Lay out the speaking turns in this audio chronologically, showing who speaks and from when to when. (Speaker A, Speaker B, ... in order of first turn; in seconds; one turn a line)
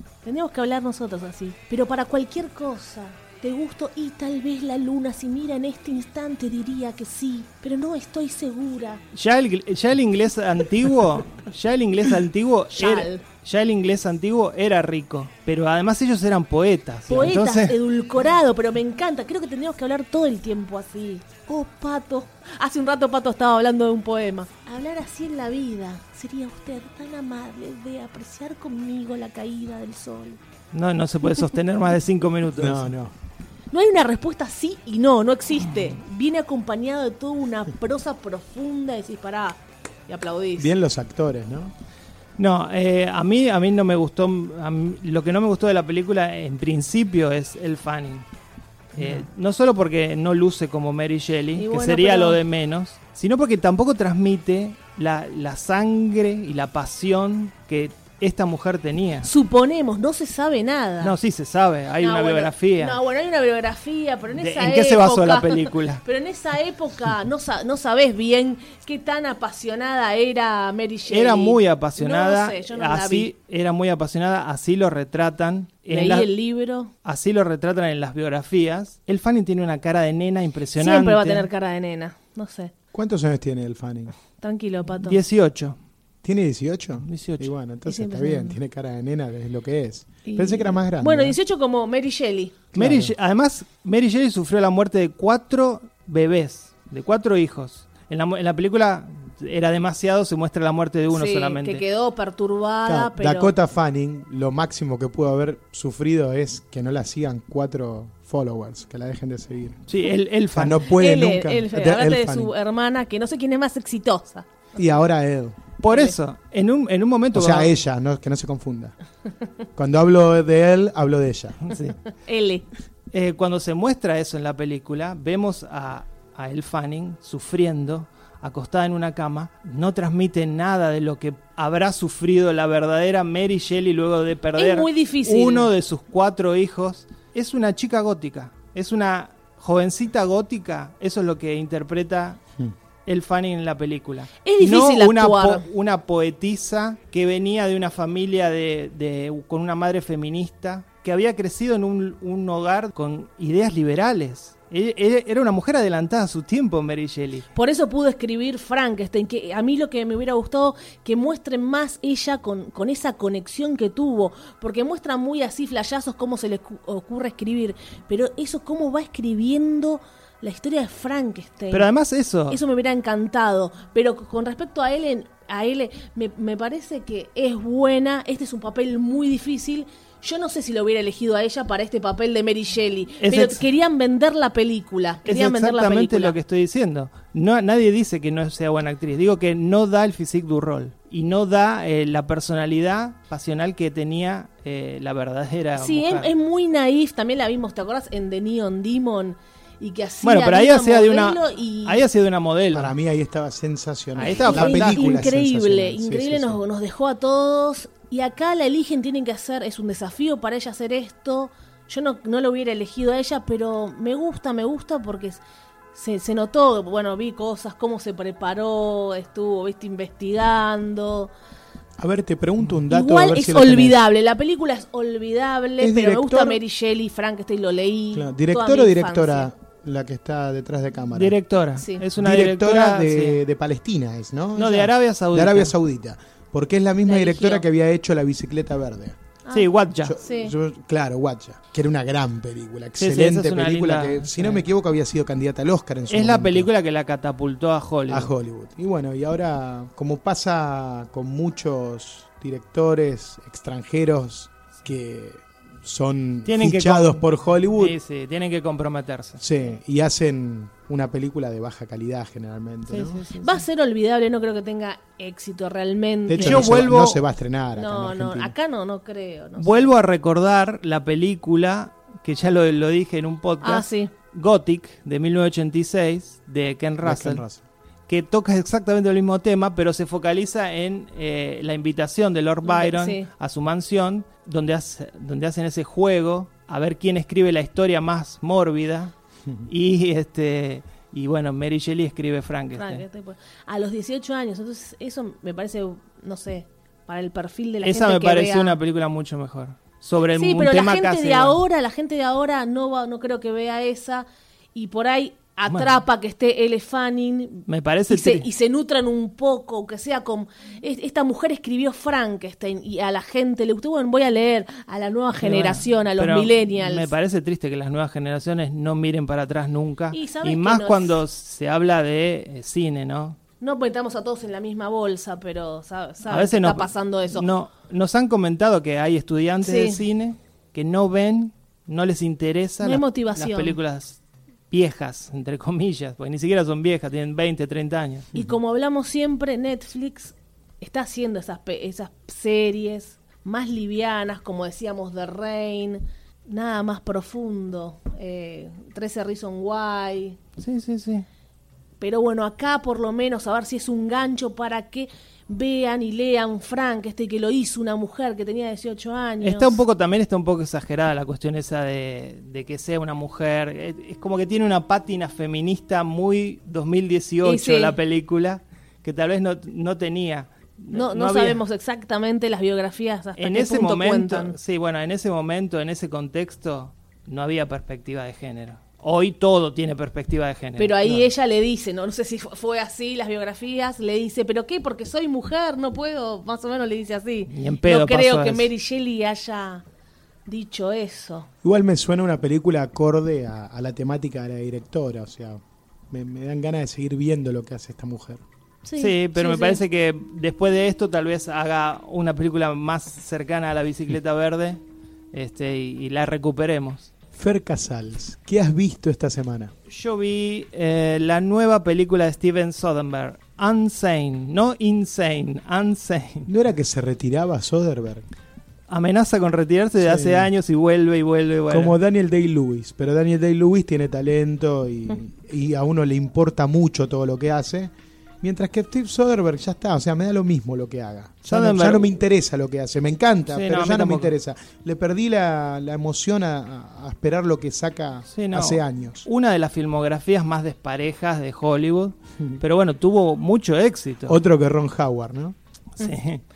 Speaker A: 0.2-9.0
Speaker B: 9.1-17.8
Speaker A: 12.7-13.2
Speaker A: 17.1-30.4
Speaker B: 30.7-32.9
Speaker C: 32.6-33.1
Speaker A: 33.7-40.7
Speaker C: 40.6-41.7
Speaker B: 42.4-48.2
Speaker B: 48.9-59.3
Speaker C: 49.0-49.2
Speaker A: 51.6-52.4
Speaker A: 59.2-61.1
Speaker B: 61.0-63.0
Speaker A: 62.0-73.3
Speaker B: 64.3-66.0
Speaker B: 71.1-76.3
Speaker A: 75.9-76.9
Speaker B: 77.0-81.5
Speaker A: 80.8-82.7
Speaker C: 82.9-84.1
Speaker A: 84.4-85.2
Speaker B: 85.0-85.8
Speaker C: 86.2-91.4
Speaker B: 87.0-87.5
Speaker A: 87.8-88.6
Speaker A: 90.2-92.6
Speaker C: 92.7-93.1
Speaker B: 92.7-101.8
Speaker A: 101.1-103.5
Speaker C: 102.8-109.8
Speaker B: 109.9-110.8
Speaker C: 110.5-112.5
Speaker A: 110.9-114.5
Speaker C: 114.7-115.6
Speaker B: 115.8-117.7
Speaker A: 115.9-116.1
Speaker C: 117.3-118.9
Speaker C: 119.8-121.7
Speaker B: 121.7-122.0
Speaker A: 122.1-122.7
Speaker B: 123.1-142.4
Speaker A: 134.6-135.7
Speaker B: 143.1-157.5
Speaker A: 144.4-145.7
Speaker A: 157.5-171.9
Speaker B: 171.7-172.6
Speaker A: 172.5-186.3
Speaker B: 183.2-183.7
Speaker B: 185.2-196.3
Speaker A: 195.7-202.0
Speaker B: 200.2-202.9
Speaker C: 202.7-206.6
Speaker B: 204.1-205.2
Speaker A: 204.3-215.4
Speaker A: 215.9-221.3
Speaker C: 222.0-224.0
Speaker A: 222.9-229.5
Speaker C: 225.8-226.6
Speaker C: 228.1-231.3
Speaker B: 231.1-233.4
Speaker A: 231.8-232.0
Speaker C: 232.2-239.2
Speaker B: 234.6-235.7
Speaker A: 237.0-237.6
Speaker A: 239.4-240.5
Speaker B: 239.5-240.2
Speaker C: 240.0-246.7
Speaker B: 243.0-244.6
Speaker B: 246.1-248.3
Speaker C: 248.1-257.9
Speaker B: 256.4-257.2
Speaker B: 257.8-259.4
Speaker C: 259.4-263.2
Speaker B: 262.9-263.6
Speaker A: 263.4-266.7
Speaker C: 266.3-268.5
Speaker B: 266.3-267.2
Speaker A: 267.7-269.9
Speaker B: 269.6-277.4
Speaker A: 273.6-274.1
Speaker C: 277.0-277.6
Speaker B: 278.1-289.1
Speaker A: 282.6-283.3
Speaker B: 289.7-293.0
Speaker A: 292.8-298.8
Speaker B: 297.8-301.6
Speaker A: 300.3-317.1
Speaker B: 307.7-308.5
Speaker B: 315.4-323.4
Speaker A: 320.1-321.2
Speaker A: 323.6-327.5
Speaker B: 326.2-334.2
Speaker A: 329.6-330.0
Speaker A: 332.8-333.8
Speaker B: 334.7-338.3
Speaker A: 338.3-350.4
Speaker B: 350.6-351.2
Speaker A: 352.0-359.8
Speaker B: 359.4-371.6
Speaker A: 367.4-367.9
Speaker A: 370.9-374.6
Speaker B: 373.4-381.3
Speaker A: 380.8-389.8
Speaker B: 387.5-388.7
Speaker A: 390.4-391.5
Speaker C: 391.6-398.4
Speaker A: 398.8-399.8
Speaker B: 399.0-404.8
Speaker B: 405.3-407.1
Speaker C: 407.3-409.7
Speaker B: 409.9-416.5
Speaker C: 416.5-418.2
Speaker B: 418.9-421.9
Speaker C: 420.0-420.5
Speaker C: 421.7-439.2
Speaker B: 431.4-432.2
Speaker B: 433.5-434.3
Speaker B: 438.3-444.4
Speaker C: 444.3-445.5
Speaker B: 446.0-446.4